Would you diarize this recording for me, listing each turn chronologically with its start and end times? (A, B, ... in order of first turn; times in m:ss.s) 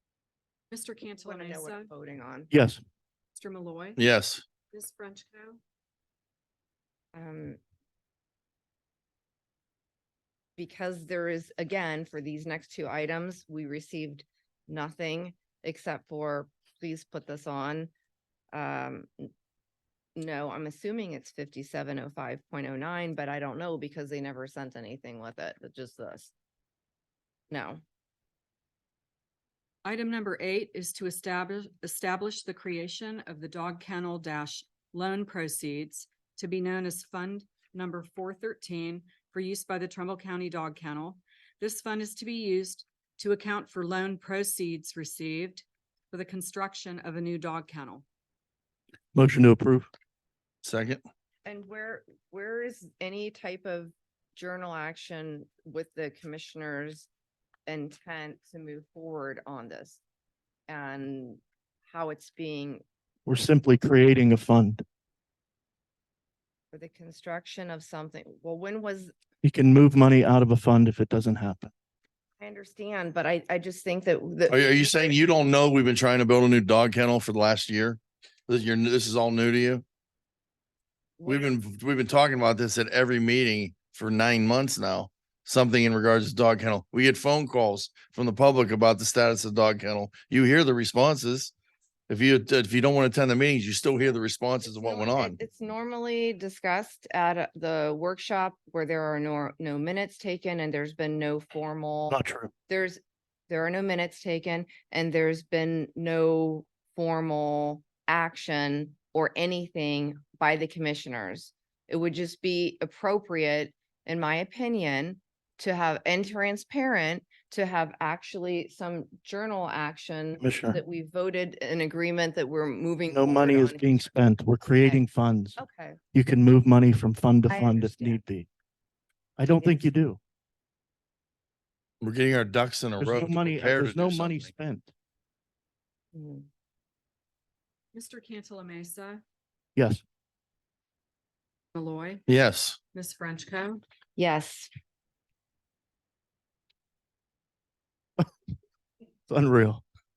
0:00.7-0:01.9 A
0:01.2-0:02.5 B
0:02.5-0:02.8 C
0:03.4-0:04.0 A
0:04.0-0:04.4 D
0:04.7-0:05.6 A
0:07.1-0:07.6 B
0:10.6-0:17.9 B
0:18.5-0:19.3 B
0:20.2-0:26.3 B
0:27.5-0:27.8 B
0:29.8-0:48.0 A
0:49.1-0:49.9 C
0:50.6-0:51.0 D
0:51.4-0:57.1 B
0:57.7-1:00.0 B
1:00.7-1:02.8 B
1:03.3-1:04.8 C
1:06.7-1:09.1 B
1:09.4-1:11.7 C
1:12.4-1:15.2 B
1:14.5-1:19.8 D
1:21.2-1:21.6 B
1:21.3-1:31.5 D
1:32.1-1:35.4 D
1:34.6-1:42.2 B
1:42.1-1:42.5 C
1:42.7-2:04.1 B
2:00.4-2:00.8 C
2:03.1-2:05.6 C
2:04.7-2:05.0 B
2:05.6-2:06.0 B
2:06.1-2:08.5 C
2:07.5-2:08.2 B
2:09.4-2:10.2 C
2:09.5-2:09.9 B
2:12.0-2:14.5 D
2:13.0-2:14.9 C
2:16.1-2:16.5 B
2:17.9-2:19.2 A
2:19.8-2:20.0 C
2:21.7-2:22.2 A
2:22.3-2:22.8 D
2:22.9-2:23.8 A
2:24.2-2:24.7 B
2:29.3-2:29.8 C